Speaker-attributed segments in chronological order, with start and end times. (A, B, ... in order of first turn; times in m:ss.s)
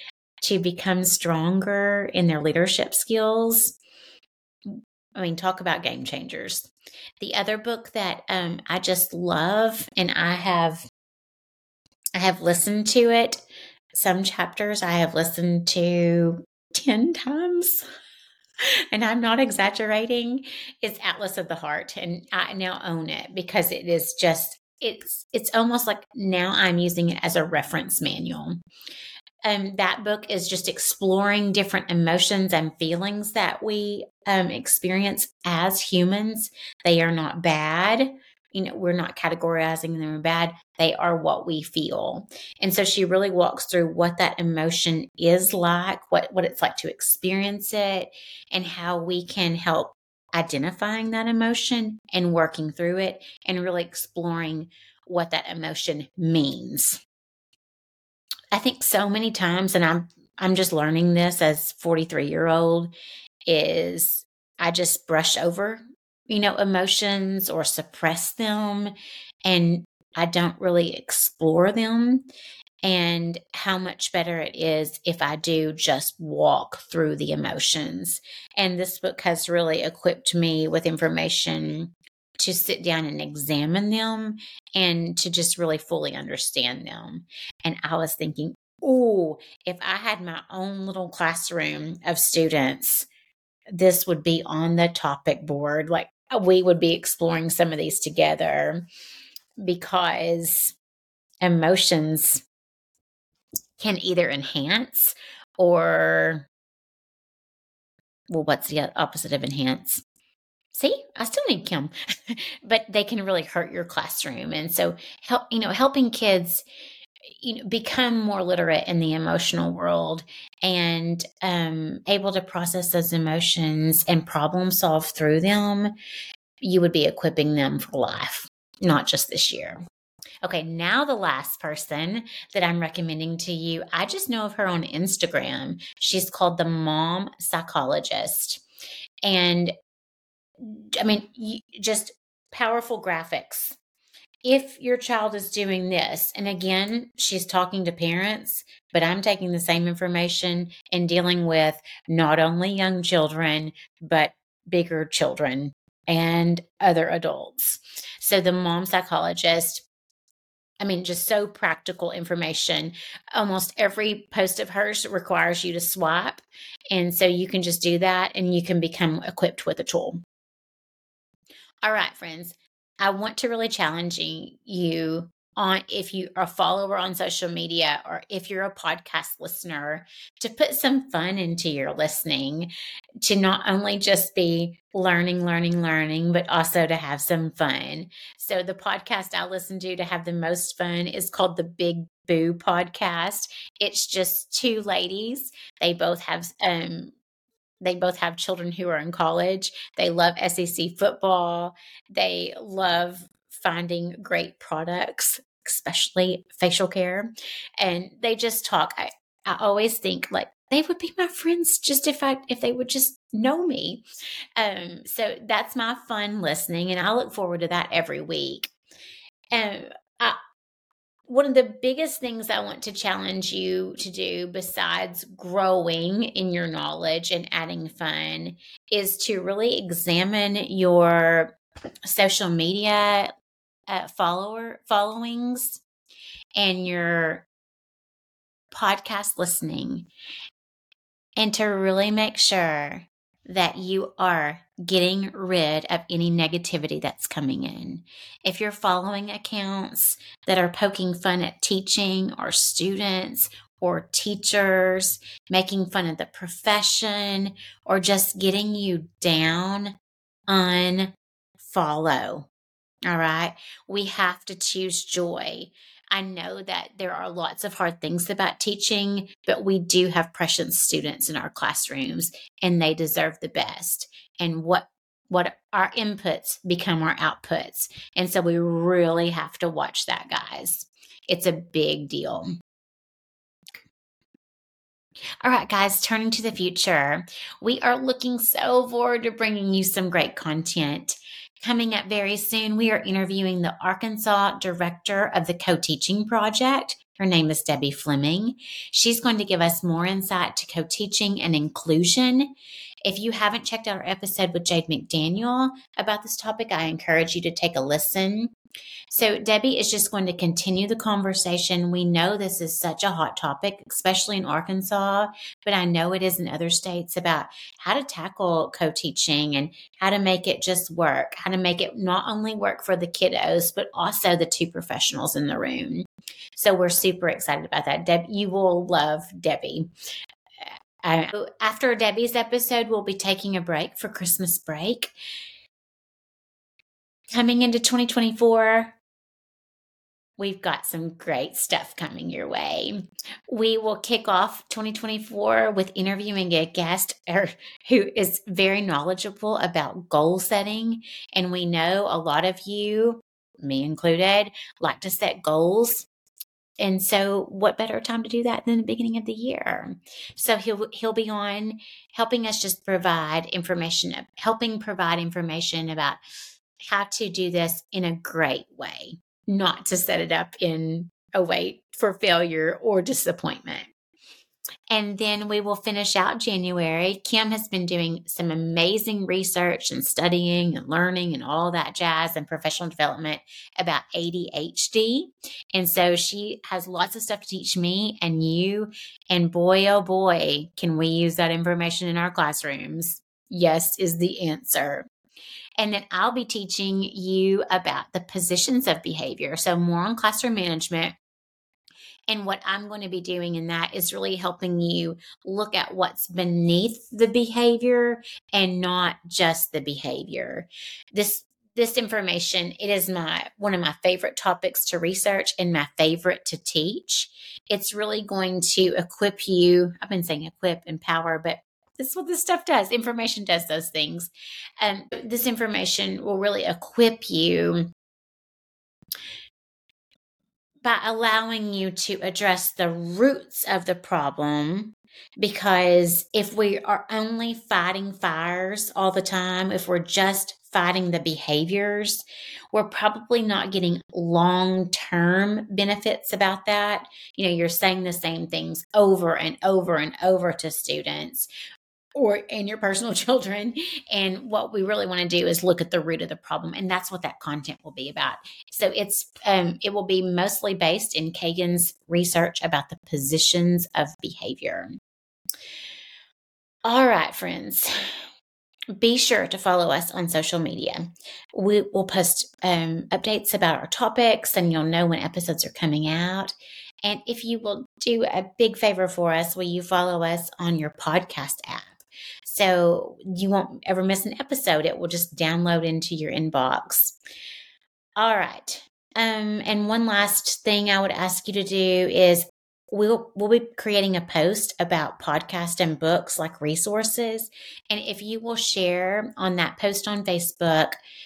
0:00.4-0:03.8 A
0:04.7-0:10.8 A
0:12.2-0:13.4 A
0:13.9-0:17.8 A
0:18.9-0:28.6 A
0:29.4-0:57.0 A
0:58.5-1:02.9 A
1:03.5-1:08.9 A
1:09.4-1:12.2 A
1:12.8-1:33.1 A
1:33.7-1:38.8 A
1:39.6-1:40.7 A
1:41.4-1:42.4 A
1:43.8-1:46.5 A
1:48.3-1:50.0 A
1:50.7-1:56.6 A
1:57.3-2:05.9 A
2:06.6-2:09.8 A
2:10.4-2:18.6 A
2:19.2-2:19.7 A
2:20.6-2:23.8 A
2:24.4-2:39.8 A
2:40.8-2:50.2 A
2:51.8-3:02.7 A
3:03.2-3:17.2 A
3:17.8-3:34.0 A
3:34.6-3:38.7 A
3:39.5-3:40.4 A
3:41.3-3:53.3 A
3:53.9-3:55.8 A
3:56.6-3:57.5 A
3:58.7-4:00.1 A
4:01.4-4:20.0 A
4:20.5-4:22.5 A
4:23.1-4:42.5 A
4:45.4-5:02.5 A
5:03.0-5:08.5 A
5:09.1-5:29.9 A
5:30.6-5:35.1 A
5:37.3-5:39.0 A
5:40.4-5:56.1 A
5:56.8-6:06.2 A
6:06.9-6:13.9 A
6:14.9-6:35.1 A
6:35.8-6:41.2 A
6:42.3-7:04.3 A
7:04.8-7:07.9 A
7:10.8-7:31.5 A
7:32.2-7:44.9 A
7:46.9-7:47.9 A
7:49.0-8:07.2 A
8:08.2-8:21.0 A